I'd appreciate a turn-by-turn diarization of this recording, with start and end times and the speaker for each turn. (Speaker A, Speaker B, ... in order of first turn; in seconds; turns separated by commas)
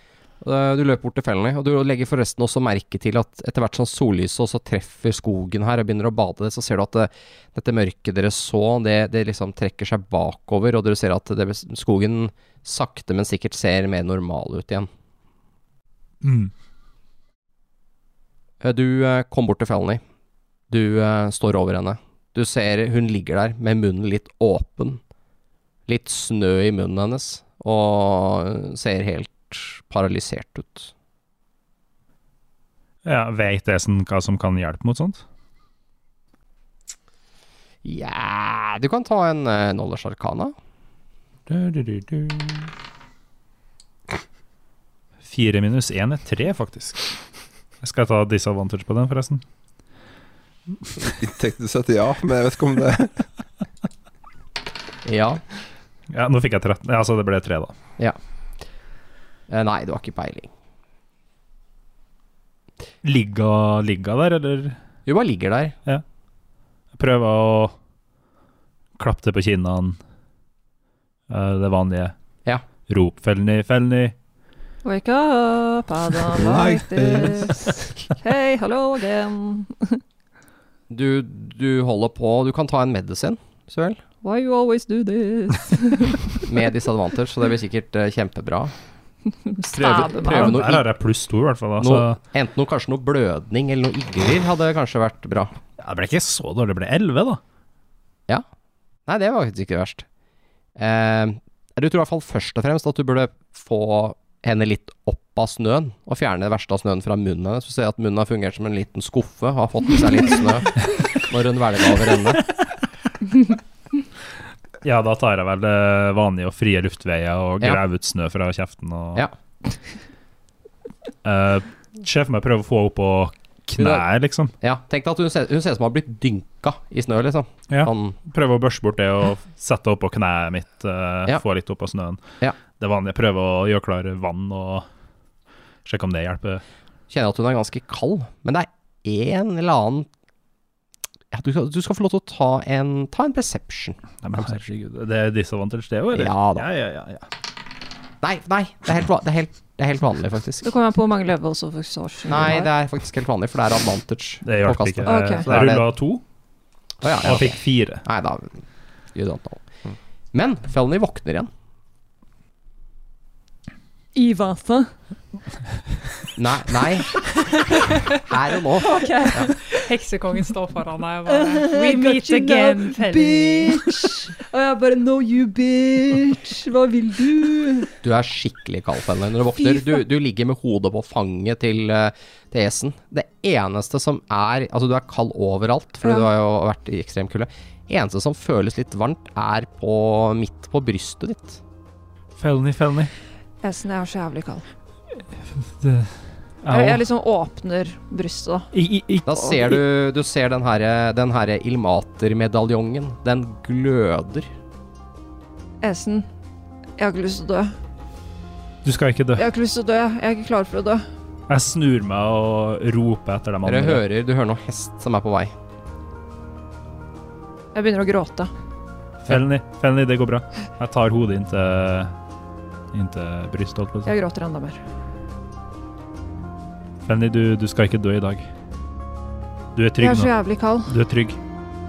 Speaker A: 0.4-14.9, Speaker B: 16.2-16.5, Speaker A: 18.6-20.0, Speaker A: 20.7-25.0, Speaker A: 25.9-30.9, Speaker B: 33.0-35.2, Speaker A: 37.8-40.5, Speaker B: 41.5-42.7, Speaker B: 45.2-47.1, Speaker B: 47.8-49.4, Speaker C: 51.0-53.2, Speaker A: 55.0-55.4, Speaker B: 56.1-57.7, Speaker A: 59.5-60.5, Speaker B: 63.0-64.8, Speaker A: 65.0-65.8, Speaker B: 67.0-67.7, Speaker B: 69.0-70.0, Speaker B: 71.3-72.1, Speaker B: 72.9-74.1, Speaker D: 74.8-80.0, Speaker C: 76.3-78.0, Speaker A: 80.9-84.0, Speaker D: 84.2-86.4, Speaker A: 86.4-88.7, Speaker D: 89.5-90.6, Speaker A: 89.7-90.8, Speaker B: 90.3-92.2, Speaker A: 91.8-95.5, Speaker B: 95.8-97.4, Speaker A: 99.1-100.0, Speaker A: 100.8-112.5, Speaker B: 114.8-119.2, Speaker B: 121.2-124.5, Speaker A: 123.8-124.0, Speaker A: 124.6-128.2, Speaker B: 127.7-132.2, Speaker B: 132.8-134.8, Speaker B: 135.8-136.6, Speaker A: 137.1-140.1, Speaker A: 141.3-144.6, Speaker B: 144.2-147.3, Speaker A: 146.1-146.7, Speaker A: 148.2-150.7, Speaker D: 150.6-152.7, Speaker A: 152.3-155.8, Speaker B: 154.4-156.2, Speaker D: 155.1-155.4, Speaker A: 157.0-159.7, Speaker B: 157.2-158.0, Speaker A: 160.3-161.5, Speaker D: 164.1-164.9, Speaker A: 166.3-167.2, Speaker D: 167.5-167.9, Speaker A: 168.2-169.5, Speaker D: 168.8-169.8, Speaker E: 169.7-174.2, Speaker D: 171.2-177.9, Speaker A: 178.0-191.6, Speaker D: 179.6-180.0, Speaker B: 192.4-193.1, Speaker D: 193.6-194.7, Speaker B: 195.6-197.0, Speaker D: 196.7-198.7, Speaker B: 198.7-199.8, Speaker A: 199.2-204.5, Speaker D: 205.8-206.3, Speaker D: 207.0-207.7, Speaker B: 208.8-209.4, Speaker D: 209.4-211.1, Speaker B: 211.5-214.0, Speaker A: 213.6-215.5, Speaker D: 217.7-218.5, Speaker B: 219.2-222.1, Speaker B: 222.9-224.1, Speaker D: 224.1-224.8, Speaker B: 227.1-228.5, Speaker B: 229.7-230.3, Speaker D: 230.0-230.9, Speaker B: 230.9-231.4